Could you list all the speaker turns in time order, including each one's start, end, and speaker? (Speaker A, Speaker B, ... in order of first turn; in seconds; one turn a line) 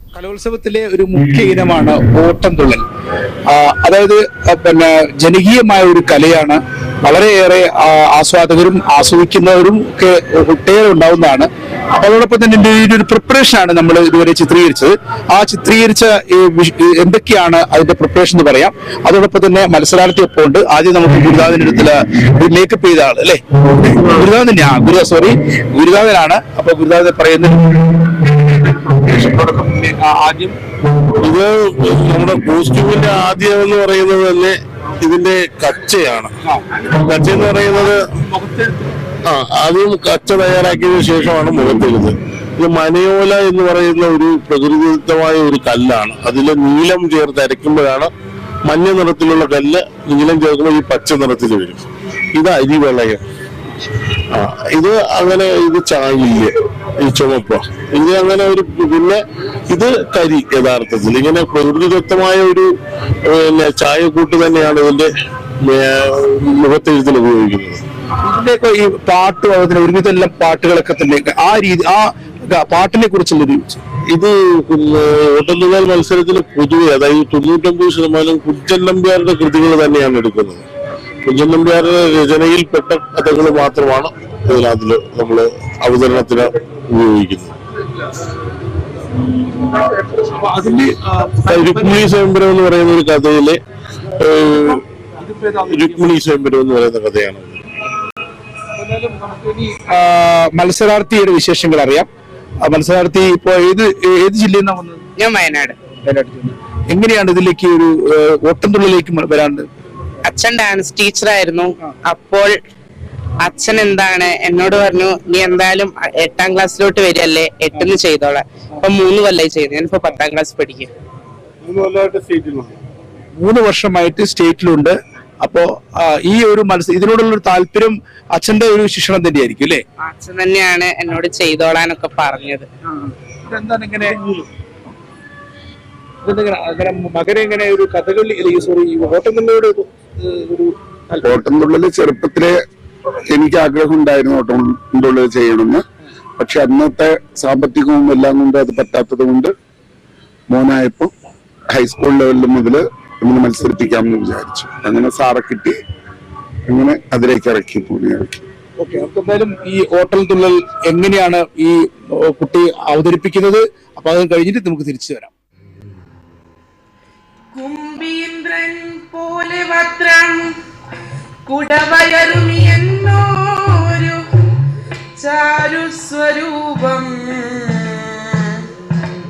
Speaker A: 0.1-2.8
Speaker A: 3.5-27.8
Speaker A: 28.6-30.6
Speaker B: 31.2-38.0
Speaker A: 36.5-36.7
Speaker A: 38.2-38.9
Speaker B: 39.2-48.1
Speaker B: 48.6-51.8
Speaker B: 52.3-53.2
Speaker B: 54.3-62.7
Speaker B: 63.2-65.1
Speaker B: 65.6-67.8
Speaker A: 68.2-73.8
Speaker B: 74.0-80.7
Speaker B: 81.2-87.5
Speaker A: 89.5-92.0
Speaker B: 91.4-93.6
Speaker B: 94.2-94.8
Speaker A: 95.2-96.2
Speaker B: 95.6-97.6
Speaker A: 98.8-102.1
Speaker A: 102.6-105.0
Speaker C: 105.2-105.8
Speaker A: 106.0-109.7
Speaker C: 110.2-112.5
Speaker C: 113.4-120.9
Speaker B: 122.2-122.5
Speaker A: 123.3-129.8
Speaker C: 130.0-132.7
Speaker A: 132.9-134.5
Speaker A: 136.2-141.4
Speaker D: 141.2-142.5
Speaker D: 143.3-145.8
Speaker D: 146.4-149.5
Speaker D: 150.5-151.1
Speaker D: 151.7-155.7
Speaker D: 156.7-158.4
Speaker A: 158.8-165.3
Speaker E: 167.5-170.5
Speaker E: 171.5-174.2
Speaker E: 175.2-178.6